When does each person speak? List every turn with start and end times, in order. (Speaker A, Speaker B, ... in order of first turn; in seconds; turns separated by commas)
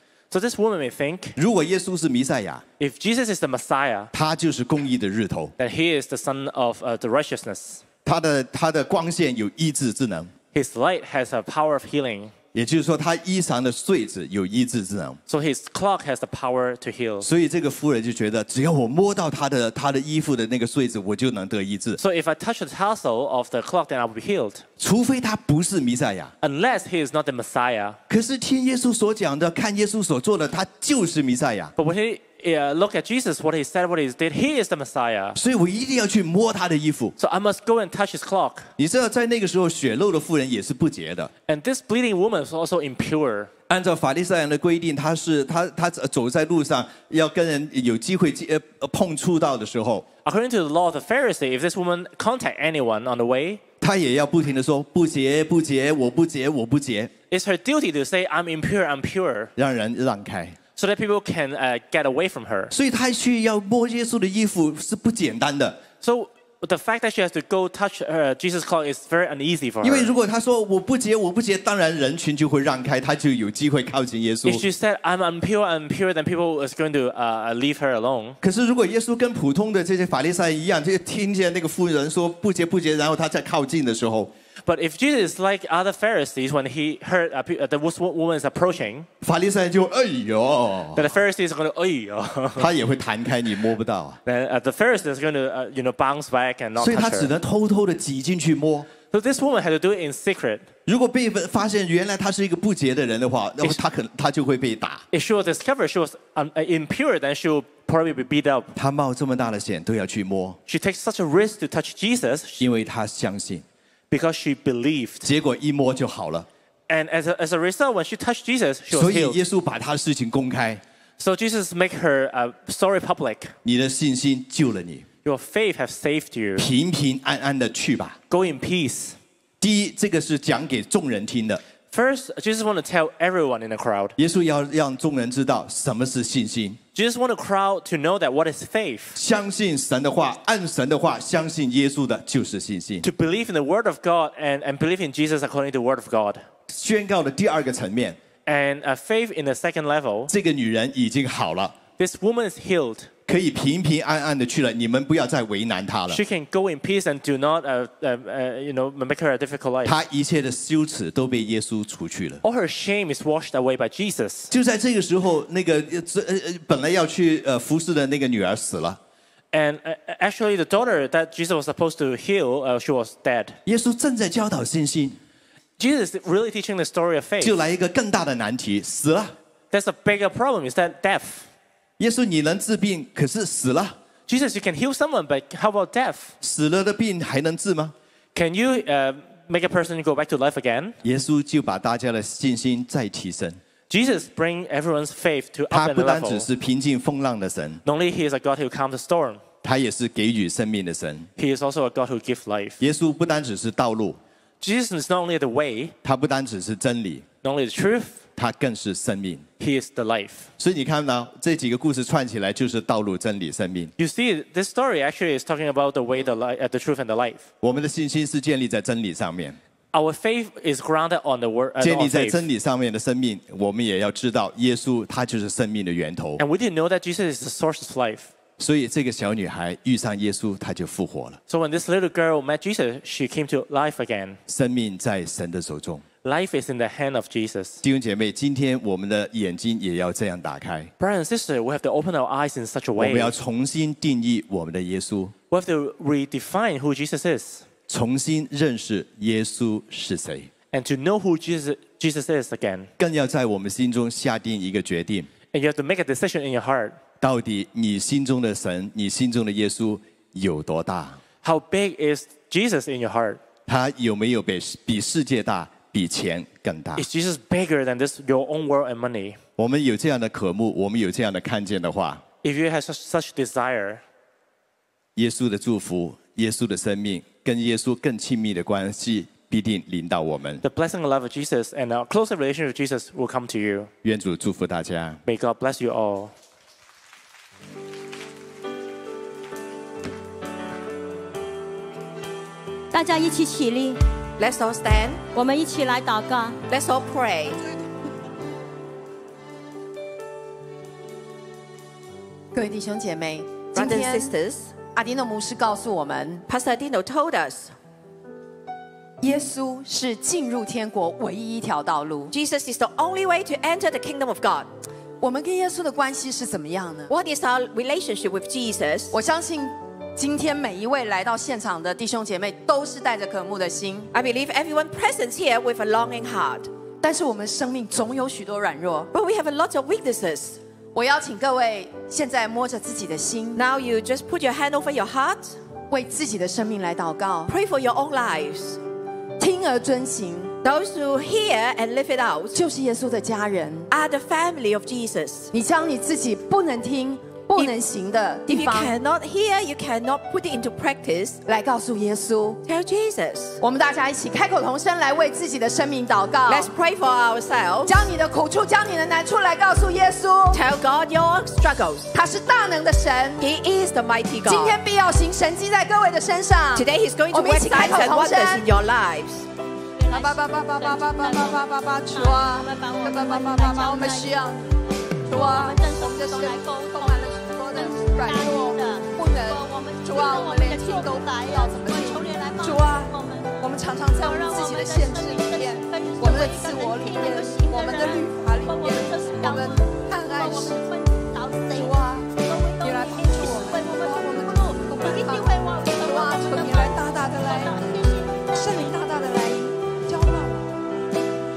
Speaker A: 0.3-1.4, Speaker B: 1.4-2.6, Speaker A: 2.8-4.1, Speaker B: 4.1-5.5, Speaker A: 5.6-7.8, Speaker B: 8.1-10.3, Speaker A: 10.5-12.3, Speaker B: 12.5-15.2, Speaker A: 15.3-17.3, Speaker B: 17.2-22.0, Speaker A: 22.0-24.6, Speaker B: 24.8-26.3, Speaker A: 26.4-28.0, Speaker B: 28.1-31.7, Speaker A: 31.8-35.4, Speaker B: 35.4-37.1, Speaker A: 37.2-38.7, Speaker B: 38.8-41.3, Speaker A: 41.5-43.5, Speaker B: 43.7-50.1, Speaker A: 50.2-53.6, Speaker B: 53.8-57.1, Speaker A: 57.3-59.5, Speaker B: 59.6-60.6, Speaker A: 60.8-62.7, Speaker B: 62.7-65.8, Speaker A: 66.0-70.1, Speaker B: 69.8-74.6, Speaker A: 74.5-78.4, Speaker B: 78.4-84.3, Speaker A: 84.7-89.1, Speaker B: 89.2-91.1, Speaker A: 91.0-92.7, Speaker B: 92.6-94.2, Speaker A: 94.3-97.3, Speaker B: 96.8-98.9, Speaker A: 99.1-100.7, Speaker B: 100.9-105.0, Speaker A: 105.1-108.7, Speaker B: 108.8-110.6, Speaker A: 110.7-112.7, Speaker B: 112.6-113.7, Speaker A: 114.1-115.3, Speaker B: 115.2-116.5, Speaker A: 116.9-119.4, Speaker B: 118.9-120.8, Speaker A: 121.2-123.5, Speaker B: 123.6-125.1, Speaker A: 125.2-126.7, Speaker B: 126.6-128.2, Speaker A: 128.3-129.2, Speaker B: 129.6-131.6, Speaker A: 131.9-134.2, Speaker B: 134.2-136.8, Speaker A: 136.9-139.2, Speaker B: 139.2-143.1, Speaker A: 143.0-146.4, Speaker B: 146.7-148.2, Speaker A: 148.5-150.3, Speaker B: 150.3-151.8, Speaker A: 152.0-153.1, Speaker B: 153.3-156.2, Speaker A: 156.1-160.0, Speaker B: 159.8-162.4, Speaker A: 162.4-164.5, Speaker B: 164.5-169.0, Speaker A: 169.5-173.6, Speaker B: 173.7-175.2, Speaker A: 175.8-177.6, Speaker B: 177.4-179.3, Speaker A: 179.7-181.5, Speaker B: 182.0-184.0, Speaker A: 184.3-186.3, Speaker B: 186.4-187.9, Speaker A: 188.3-191.0, Speaker B: 191.0-193.6, Speaker A: 193.9-196.5, Speaker B: 195.7-197.8, Speaker A: 197.8-199.4, Speaker B: 199.6-201.3, Speaker A: 201.4-202.8, Speaker B: 202.8-204.2, Speaker A: 204.6-205.9, Speaker B: 206.0-207.3, Speaker A: 207.4-208.2, Speaker B: 208.4-209.5, Speaker A: 209.6-210.5, Speaker B: 210.6-213.9, Speaker A: 214.0-217.5, Speaker B: 217.6-219.6, Speaker A: 219.9-222.4, Speaker B: 221.8-226.4, Speaker A: 226.4-228.3, Speaker B: 228.6-231.4, Speaker A: 231.5-234.4, Speaker B: 234.5-236.1, Speaker A: 236.2-237.8, Speaker B: 237.8-240.9, Speaker A: 241.0-243.3, Speaker B: 243.0-245.3, Speaker A: 245.5-247.7, Speaker B: 247.9-250.5, Speaker A: 250.7-252.9, Speaker B: 253.0-255.3, Speaker A: 255.5-257.0, Speaker B: 257.2-261.2, Speaker A: 261.4-263.4, Speaker B: 263.7-267.1, Speaker A: 267.0-269.4, Speaker B: 269.6-272.2, Speaker A: 272.4-274.0, Speaker B: 275.2-280.6, Speaker A: 280.6-283.9, Speaker B: 284.0-285.2, Speaker A: 285.3-286.3, Speaker C: 292.9-294.0, Speaker D: 294.4-295.2, Speaker C: 295.3-296.6, Speaker D: 296.7-297.6, Speaker E: 302.5-306.4, Speaker D: 303.7-304.8, Speaker D: 306.5-307.7, Speaker E: 309.2-312.3, Speaker D: 312.3-314.7, Speaker E: 315.2-317.1, Speaker D: 317.1-319.1, Speaker E: 319.1-324.1, Speaker D: 324.1-326.7, Speaker E: 327.0-329.1, Speaker D: 329.1-330.6, Speaker E: 330.9-333.6, Speaker D: 333.6-335.6, Speaker E: 335.9-337.5, Speaker D: 337.5-338.8, Speaker E: 339.4-340.6, Speaker D: 340.6-342.6, Speaker E: 342.5-343.9, Speaker D: 343.9-345.5, Speaker E: 345.5-348.9, Speaker D: 348.5-351.4, Speaker E: 351.5-352.6, Speaker D: 352.6-353.6, Speaker E: 353.6-356.7, Speaker D: 356.5-358.0, Speaker E: 357.9-360.6, Speaker D: 360.5-362.1, Speaker E: 362.1-363.5, Speaker D: 363.4-364.8, Speaker E: 364.4-368.7, Speaker D: 366.8-369.5, Speaker C: 370.0-374.4, Speaker E: 370.1-374.6, Speaker E: 375.3-390.8, Speaker C: 375.3-399.4, Speaker E: 391.7-397.8, Speaker E: 398.5-400.6